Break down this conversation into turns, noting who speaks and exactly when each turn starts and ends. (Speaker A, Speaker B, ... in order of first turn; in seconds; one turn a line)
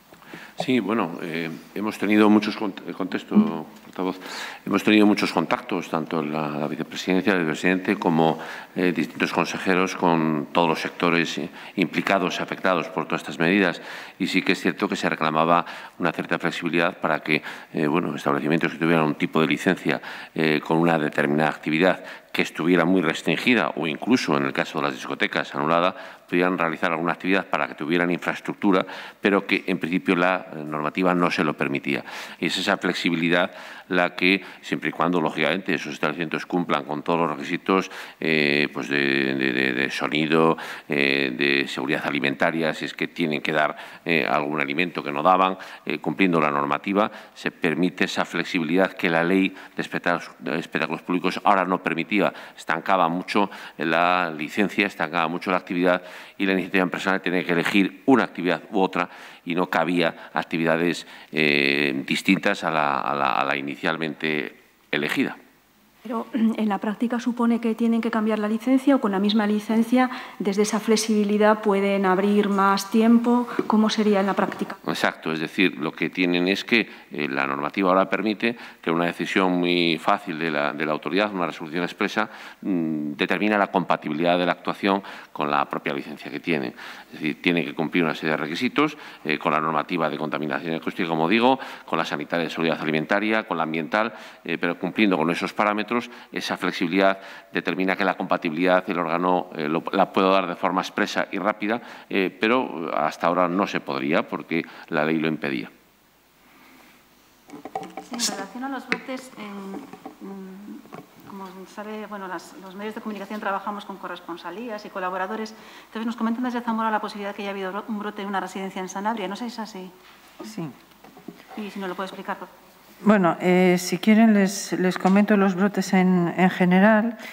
Speaker A: 0.6-65.4
Speaker B: 66.1-74.7
Speaker A: 74.8-105.7
Speaker C: 108.1-119.9
Speaker D: 120.4-120.7
Speaker C: 121.5-122.5
Speaker D: 123.0-127.2